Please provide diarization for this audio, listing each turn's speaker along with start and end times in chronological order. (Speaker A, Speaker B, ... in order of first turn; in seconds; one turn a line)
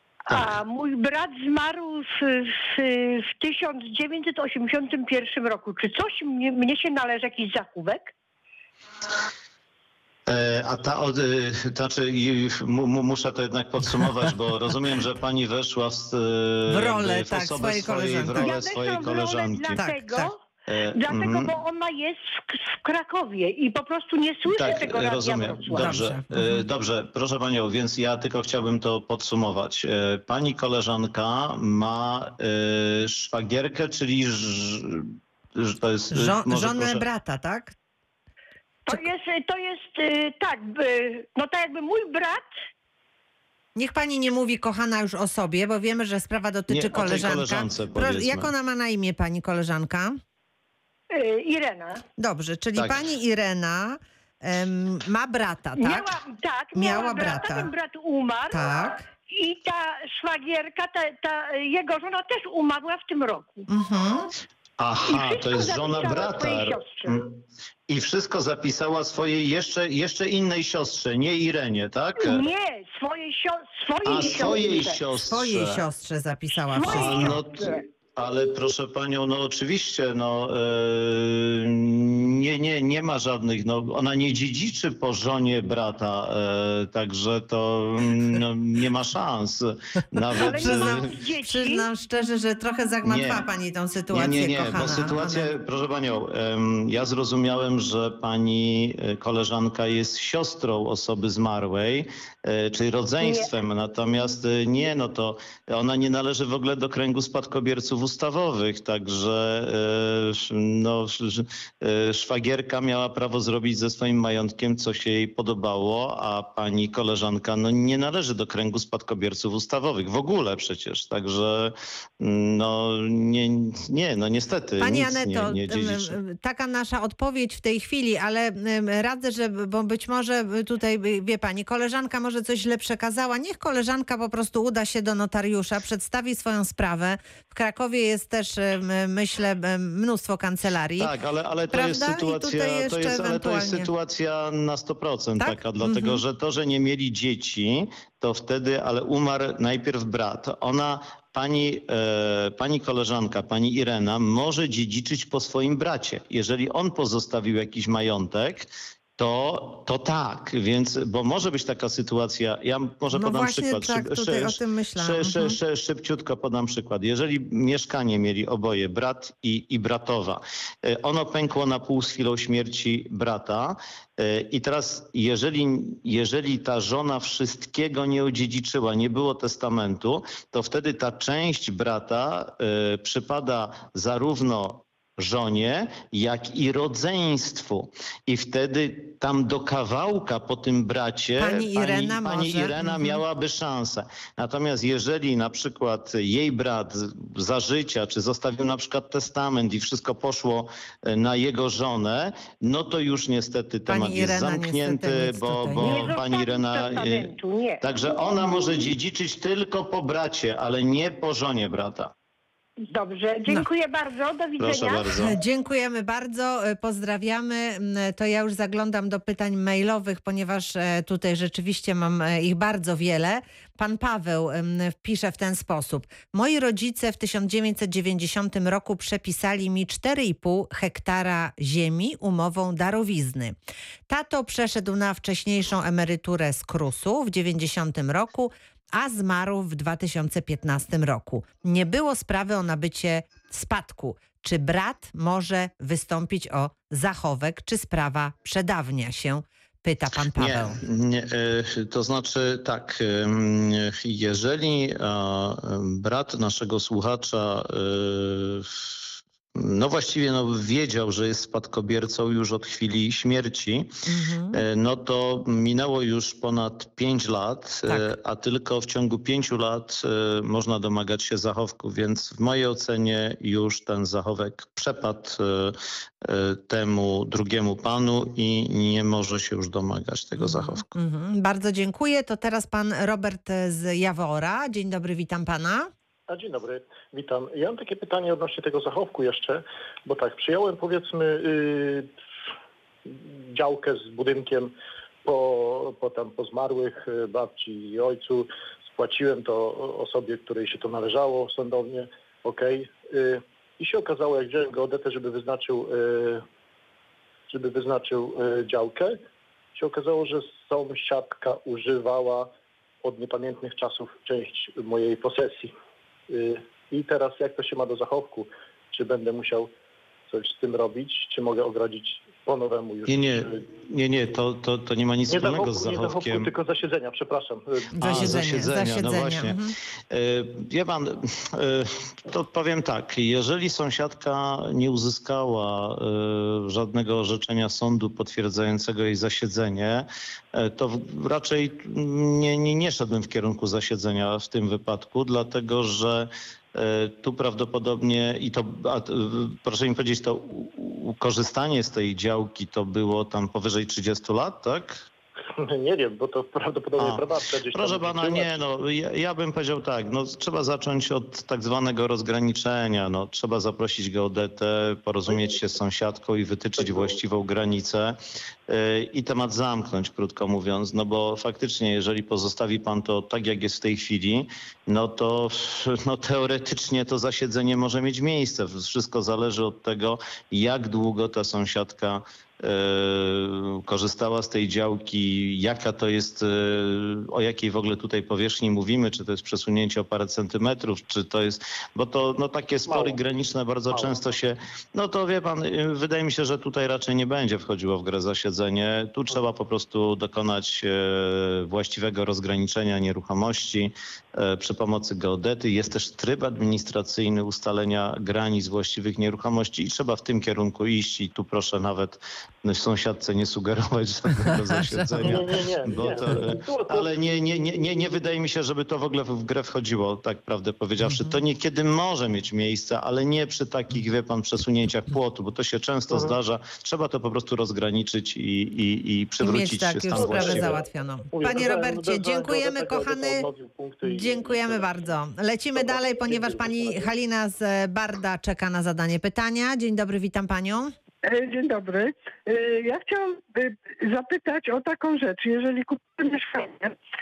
Speaker A: 0.3-8.1
Speaker B: 10.3-19.9
Speaker C: 16.7-18.6
Speaker A: 18.4-20.4
Speaker C: 19.8-20.3
Speaker B: 20.7-21.5
Speaker A: 20.9-26.0
Speaker B: 24.5-37.0
Speaker C: 25.7-26.6
Speaker C: 36.1-37.7
Speaker A: 38.9-42.5
Speaker C: 43.8-50.2
Speaker B: 46.7-48.5
Speaker A: 51.1-52.0
Speaker C: 52.2-56.1
Speaker A: 55.8-58.7
Speaker C: 56.7-57.7
Speaker C: 58.5-59.1
Speaker A: 59.3-63.7
Speaker C: 63.7-64.3
Speaker B: 64.8-67.3
Speaker A: 65.1-67.2
Speaker B: 67.9-72.4
Speaker A: 72.2-75.0
Speaker B: 74.0-75.8
Speaker C: 75.2-77.4
Speaker A: 76.7-77.8
Speaker B: 76.9-91.1
Speaker A: 90.3-91.8
Speaker C: 90.4-95.5
Speaker B: 93.0-93.4
Speaker B: 94.1-126.2
Speaker A: 103.2-103.5
Speaker C: 124.8-141.1
Speaker B: 141.0-212.1
Speaker C: 141.7-143.9
Speaker C: 145.4-146.2
Speaker C: 163.1-165.6
Speaker C: 191.4-193.2
Speaker C: 203.9-206.0
Speaker A: 205.8-207.8
Speaker A: 212.9-215.1
Speaker B: 214.6-215.3
Speaker C: 215.2-233.6
Speaker C: 234.1-250.8
Speaker B: 250.3-258.9
Speaker B: 259.5-263.9
Speaker C: 264.1-264.6
Speaker B: 264.5-280.9
Speaker C: 280.4-285.9
Speaker D: 286.3-292.1
Speaker D: 293.1-306.4
Speaker D: 307.5-309.2
Speaker D: 309.7-312.5
Speaker D: 313.0-315.7
Speaker D: 316.3-319.7
Speaker D: 320.3-323.6
Speaker B: 323.1-326.5
Speaker D: 325.3-328.5
Speaker C: 328.0-329.7
Speaker B: 328.0-329.6
Speaker B: 330.1-355.0
Speaker D: 355.5-358.6
Speaker B: 357.0-430.8
Speaker D: 366.8-367.2
Speaker D: 392.9-393.2
Speaker D: 393.9-394.3
Speaker C: 414.4-415.4
Speaker D: 415.2-418.2
Speaker C: 421.0-421.4
Speaker D: 426.1-426.4
Speaker C: 429.4-433.4
Speaker D: 430.1-435.0
Speaker C: 434.0-440.9
Speaker D: 435.8-437.1
Speaker E: 441.2-446.9